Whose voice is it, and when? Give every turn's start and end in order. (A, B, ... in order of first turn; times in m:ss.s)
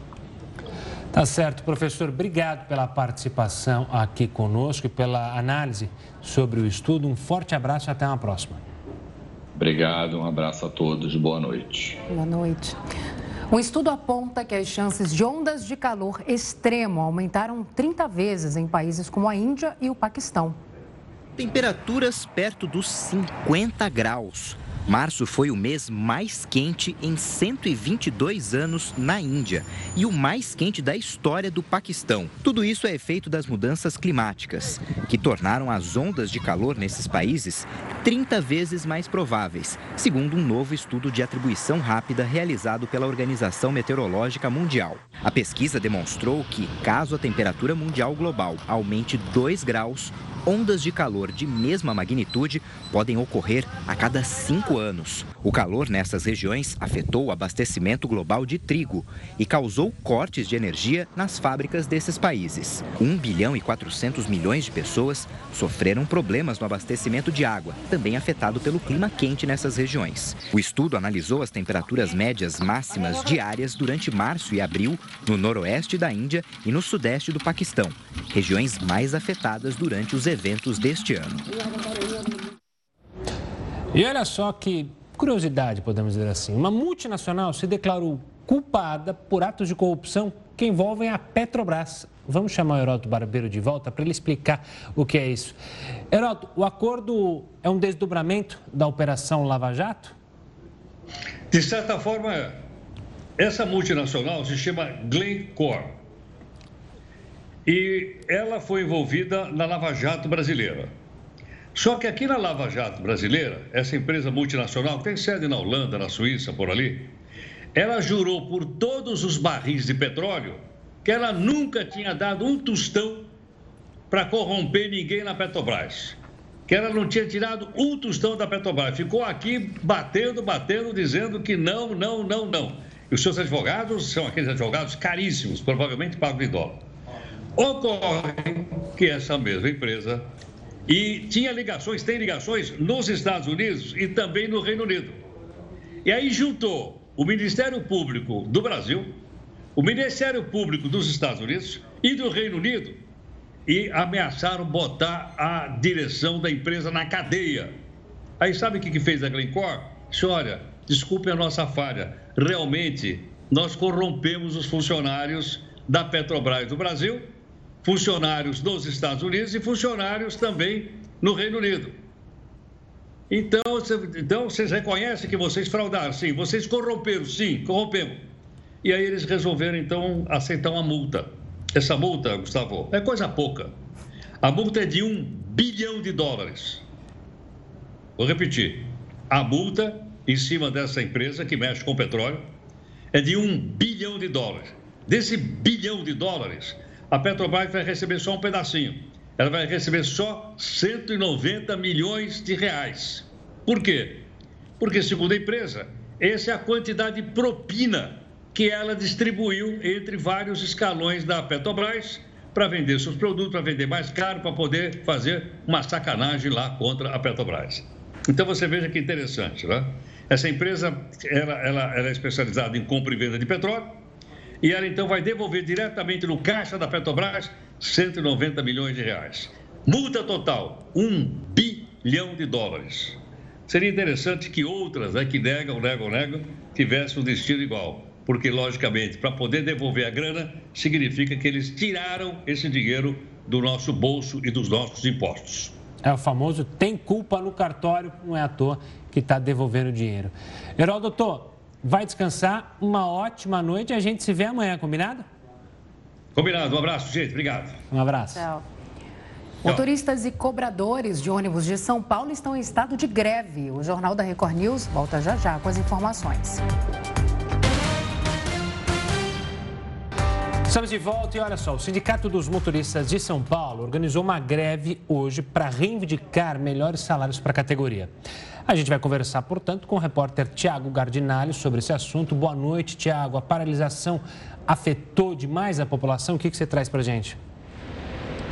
0:01.1-0:08.6 A
0:09.6-0:12.0 B
0:12.1-0:12.8 C
0:13.5-0:20.6 C
0:21.4-1:21.4 D
1:23.9-1:35.6 A
1:36.1-1:40.1 A
1:41.5-1:42.6 E
1:43.4-1:46.0 E
1:47.6-1:50.9 E
1:51.8-1:57.1 E
1:57.8-2:03.3 E
2:04.1-2:06.2 E
2:06.7-2:16.8 E
2:17.6-2:20.3 E
2:20.9-2:25.2 E
2:26.0-2:29.2 E
2:29.8-2:33.0 E
2:33.7-2:37.8 E
2:38.4-2:47.3 E
2:47.8-2:52.0 E
2:53.3-2:58.3 E
2:58.8-3:03.7 E
3:04.4-3:06.8 E
3:08.2-3:12.5 E
3:13.1-3:24.3 E
3:24.8-3:44.0 E
3:44.6-4:05.7 E
4:06.0-4:15.2 A
4:16.4-4:17.8 E
4:17.9-4:18.4 A
4:18.3-4:18.6 C
4:19.6-4:26.6 C
4:30.7-4:38.1 A
4:38.6-4:47.4 A